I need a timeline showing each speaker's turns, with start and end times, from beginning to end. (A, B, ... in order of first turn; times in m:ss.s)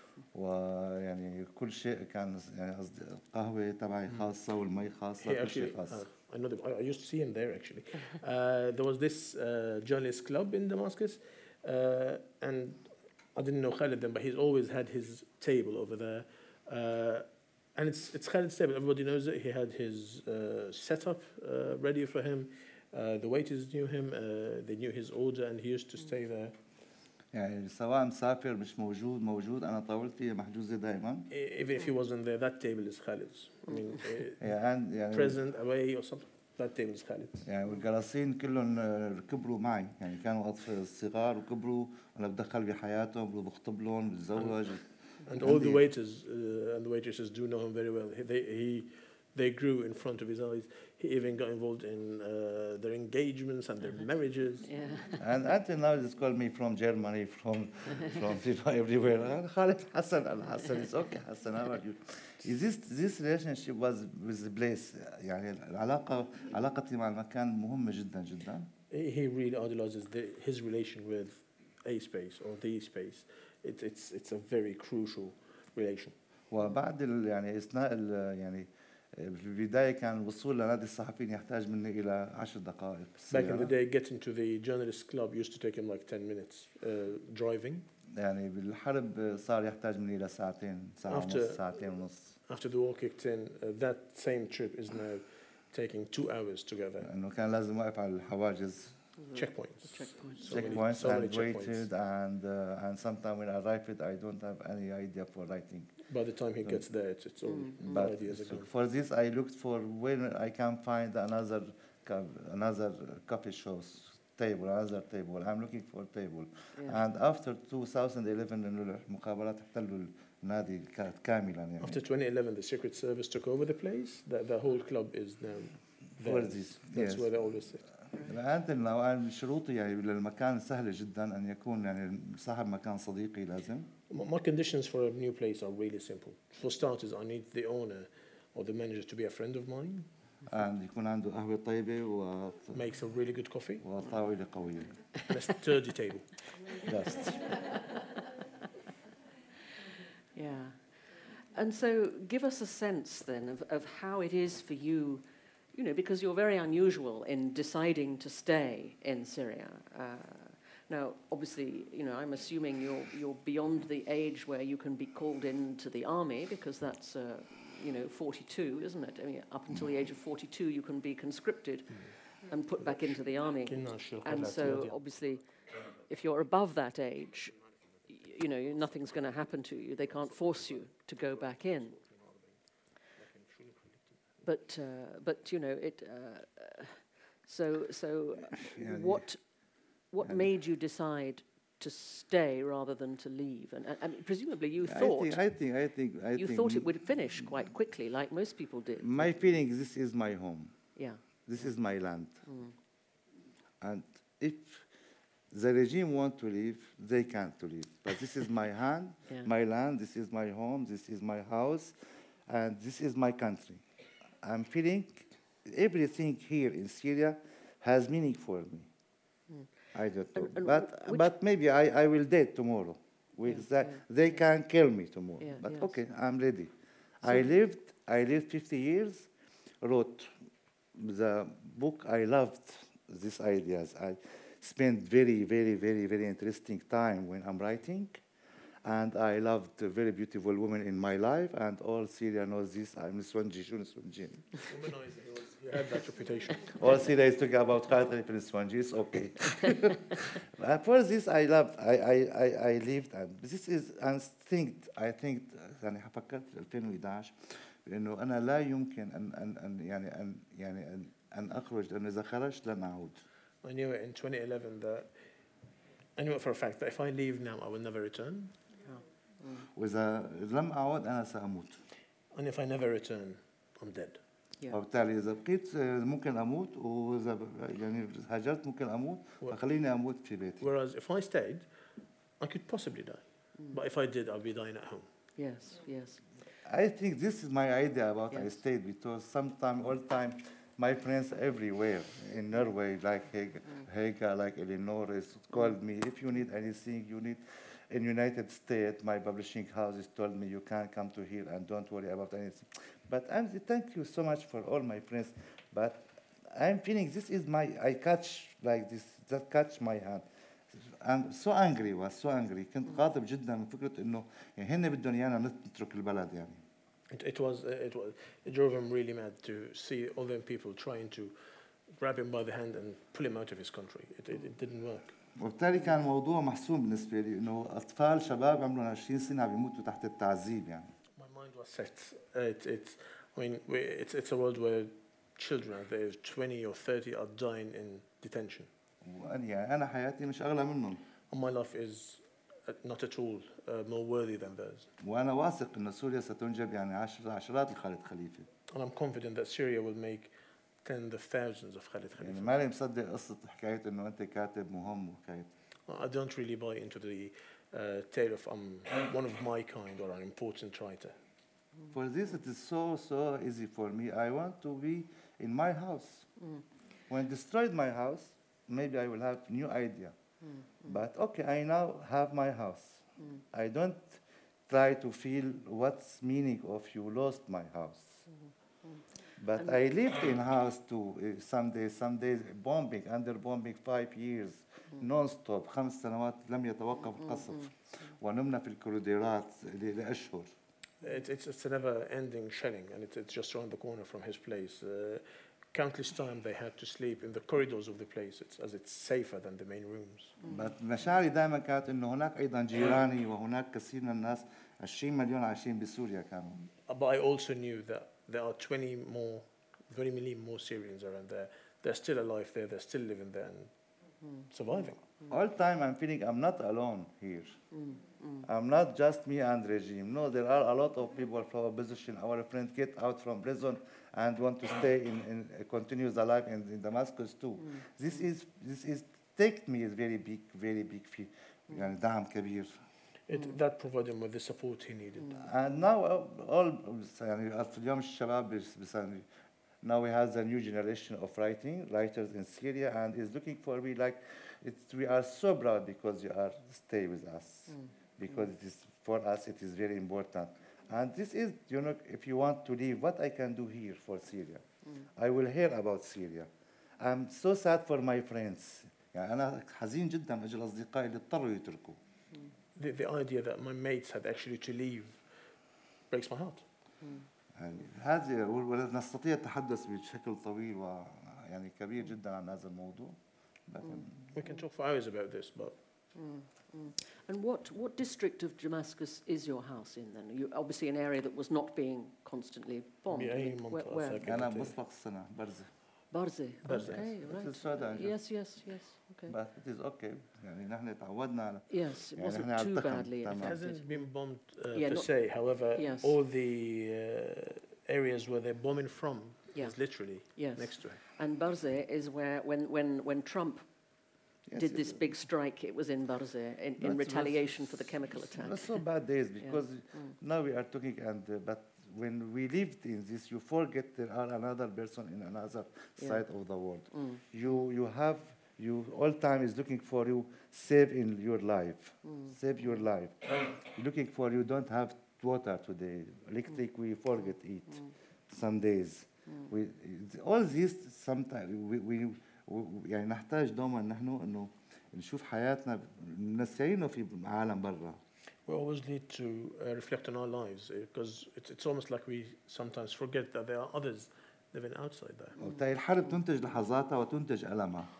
0:00.3-0:06.0 A
0:05.2-0:26.6 B
0:27.3-0:31.3 A
0:31.3-0:34.5 B
0:34.4-0:35.4 A
0:35.1-0:37.5 B
0:37.4-0:45.8 A
0:45.2-0:54.7 B
0:54.6-0:55.2 C
0:55.2-1:08.7 A
1:08.9-1:16.1 B
1:16.5-1:23.7 A
1:23.3-1:27.9 B
1:28.1-1:32.4 A
1:31.1-1:31.8 B
1:32.5-1:37.1 B
1:37.0-1:39.0 A
1:39.2-1:40.8 C
1:39.3-1:41.9 B
1:40.5-1:46.0 A
1:46.1-1:48.7 B
1:47.5-1:48.0 C
1:47.8-2:02.0 A
1:56.8-1:57.0 C
2:01.8-2:07.9 B
2:06.2-2:07.5 A
2:08.1-2:13.9 A
2:14.1-2:20.1 B
2:20.4-2:22.8 A
2:22.7-2:23.8 B
2:23.8-2:24.9 A
2:25.3-2:26.7 B
2:26.8-2:27.4 A
2:30.3-2:57.6 C
2:52.8-2:53.0 B
2:53.6-2:55.0 B
2:58.1-3:01.9 C
3:00.2-3:04.2 B
3:04.4-3:09.4 C
3:08.6-3:09.2 A
3:10.1-3:15.4 C
3:14.8-3:16.9 A
3:16.3-3:19.4 C
3:19.0-3:20.8 A
3:21.5-3:22.4 A
3:22.4-3:22.7 C
3:23.8-3:24.9 A
3:25.5-3:31.9 A
3:32.5-3:33.8 A
3:34.4-3:38.9 A
3:39.9-3:49.3 A
3:40.3-3:41.3 C
3:43.4-3:44.0 C
3:45.4-3:45.9 C
3:49.8-3:50.4 A
3:50.9-3:58.2 A
3:58.8-4:04.6 A
4:04.6-4:06.9 B
4:06.8-4:23.2 A
4:23.6-4:25.1 B
4:26.2-4:28.6 B
4:28.8-4:29.7 C
4:29.7-4:31.8 A
4:32.3-4:34.2 B
4:34.7-4:40.7 A
4:40.6-4:41.7 B
4:42.4-4:45.1 B
4:45.4-4:46.2 C
4:46.6-5:16.6 A
5:17.1-5:21.4 B
5:21.9-5:25.2 B
5:25.3-5:30.9 A
5:31.2-5:38.7 B
5:39.0-5:41.0 A
5:41.3-5:44.9 B
5:45.0-5:48.5 A
5:48.7-5:50.3 B
5:50.8-5:52.6 B
5:52.2-5:55.5 A
5:55.9-6:01.1 B
6:01.9-6:06.3 A
6:07.1-6:10.1 A
6:10.4-6:11.0 C
6:10.8-6:18.2 A
6:19.4-6:30.5 A
6:27.3-6:27.7 C
6:31.0-6:40.4 B
6:40.4-6:40.7 C
6:40.5-6:46.6 A
6:46.8-6:53.7 B
6:54.2-6:54.5 C
6:54.5-6:55.0 B
6:55.3-6:57.6 A
6:57.7-6:58.4 C
6:58.4-7:12.7 A
7:13.3-7:15.4 B
7:15.3-7:19.2 A
7:19.8-7:34.6 A
7:35.1-7:42.0 A
7:42.8-7:45.3 B
7:46.1-7:46.6 B
7:47.0-7:47.3 C
7:47.5-7:54.3 A
7:53.8-7:54.5 C
7:54.3-7:55.7 B
7:56.1-8:04.2 C
8:03.1-8:04.8 B
8:04.2-8:05.7 A
8:06.1-8:09.4 C
8:06.6-8:07.0 B
8:06.8-8:08.2 A
8:09.3-8:13.6 A
8:11.7-8:14.0 C
8:13.3-8:21.0 B
8:14.7-8:15.1 C
8:15.7-8:16.1 C
8:19.5-8:23.7 C
8:24.5-8:25.0 A
8:24.6-8:28.8 C
8:26.8-8:58.0 A
8:29.4-8:30.1 C
8:36.9-8:37.2 C
8:42.0-8:42.3 C
8:58.4-9:05.4 B
9:05.4-9:05.6 C
9:05.4-9:07.9 A